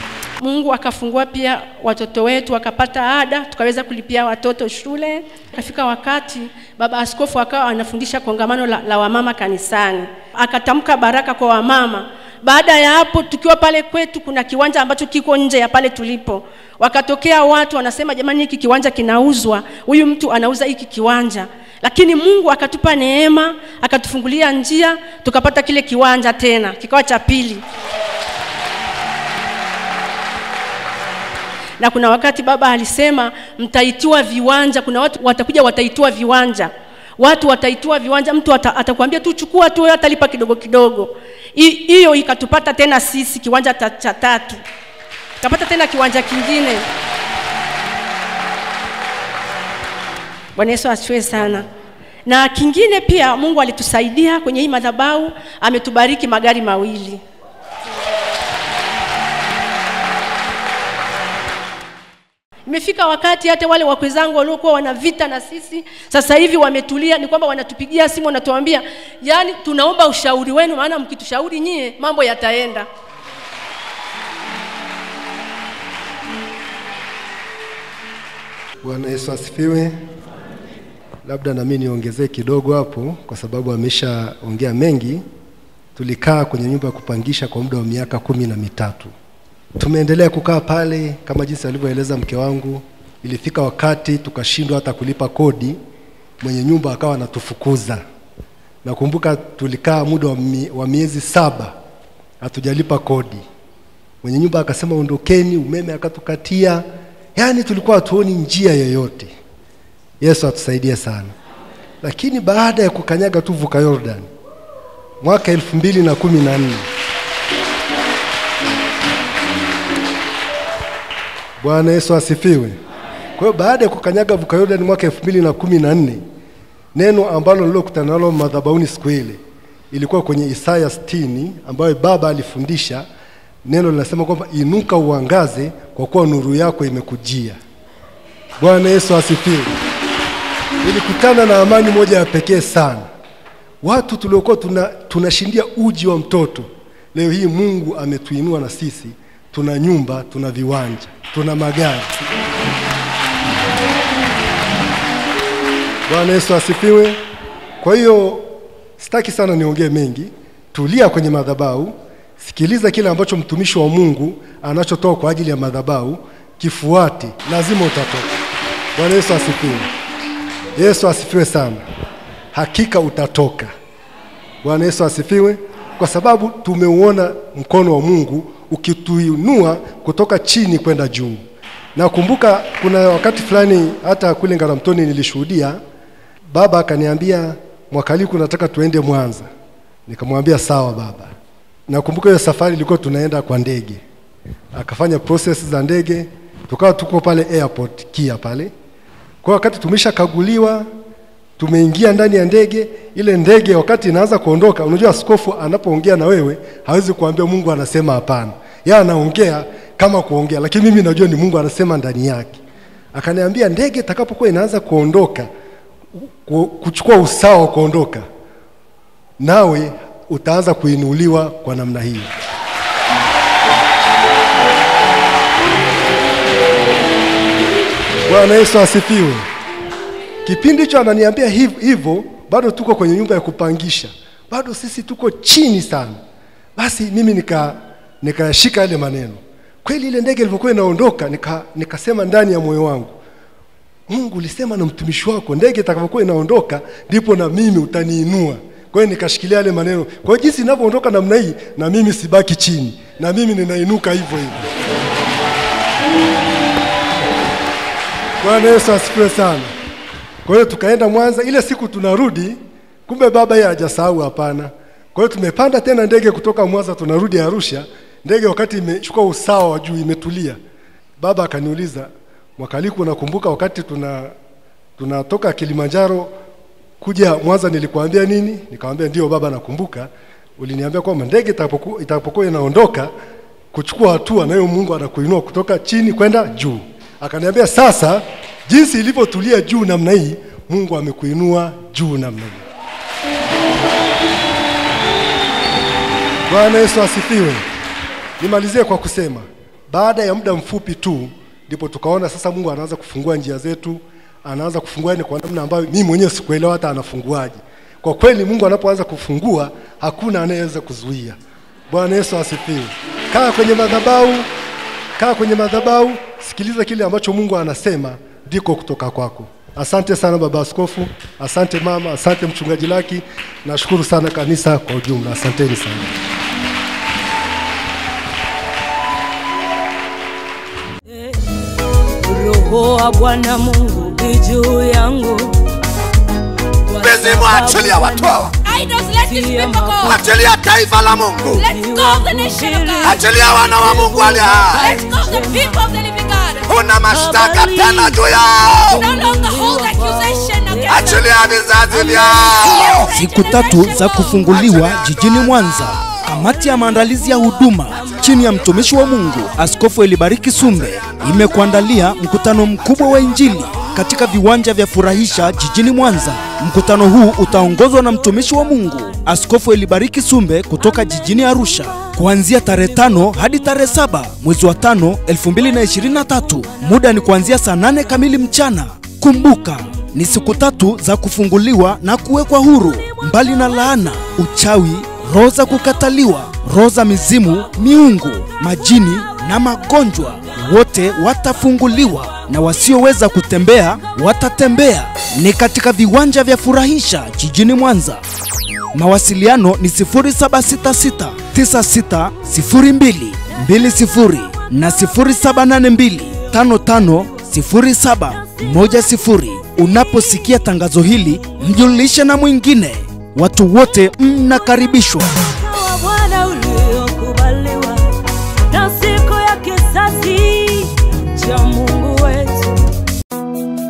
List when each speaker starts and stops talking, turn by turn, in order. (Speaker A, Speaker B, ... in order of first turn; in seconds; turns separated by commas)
Speaker A: 0.4-27.6, Speaker A: 31.8-44.6, Speaker A: 45.4-46.8, Speaker A: 50.6-51.7, Speaker A: 52.3-57.2, Speaker A: 62.7-72.9, Speaker B: 78.8-79.9, Speaker B: 81.2-85.2, Speaker B: 86.0-89.1, Speaker B: 89.8-95.8, Speaker B: 96.4-98.0, Speaker B: 98.8-101.8, Speaker B: 102.4-103.4, Speaker B: 104.2-106.8, Speaker B: 107.4-109.3, Speaker B: 110.2-111.3, Speaker B: 112.0-114.3, Speaker B: 115.2-116.9, Speaker B: 121.6-122.8, Speaker B: 123.4-126.2, Speaker B: 126.9-129.4, Speaker B: 129.9-133.1, Speaker B: 133.7-137.6, Speaker B: 138.6-139.7, Speaker B: 140.8-143.1, Speaker B: 143.8-152.1, Speaker B: 156.1-157.2, Speaker B: 157.8-168.3, Speaker B: 169.0-169.9, Speaker B: 170.8-171.8, Speaker B: 172.5-173.7, Speaker B: 174.6-181.4, Speaker B: 181.9-185.8, Speaker B: 186.5-189.5, Speaker B: 190.1-191.3, Speaker B: 191.9-194.0, Speaker B: 194.7-198.7, Speaker B: 199.4-200.9, Speaker B: 201.6-212.6, Speaker B: 213.1-215.5, Speaker B: 216.4-218.2, Speaker B: 219.4-222.3, Speaker B: 228.3-229.5, Speaker B: 230.4-236.2, Speaker B: 236.8-243.2, Speaker B: 244.1-254.7, Speaker B: 258.4-259.7, Speaker B: 260.4-270.6, Speaker B: 271.2-274.3, Speaker B: 275.0-276.3, Speaker B: 277.0-283.1, Speaker B: 283.7-292.6, Speaker B: 296.5-297.6, Speaker B: 298.4-311.4, Speaker B: 311.9-314.5, Speaker B: 315.2-326.1, Speaker C: 331.1-331.5, Speaker C: 332.2-335.6, Speaker C: 336.9-338.4, Speaker D: 337.0-338.5, Speaker E: 338.6-340.2, Speaker C: 339.3-340.2, Speaker D: 340.0-341.6, Speaker E: 341.6-343.2, Speaker C: 341.7-345.8, Speaker D: 343.0-344.8, Speaker E: 344.7-346.7, Speaker D: 346.7-349.0, Speaker C: 347.1-348.3, Speaker C: 348.9-351.2, Speaker E: 348.9-351.2, Speaker D: 350.9-353.1, Speaker C: 352.8-354.6, Speaker E: 353.1-354.4, Speaker F: 353.1-398.2, Speaker F: 398.9-415.3, Speaker C: 415.5-418.1, Speaker C: 418.7-422.9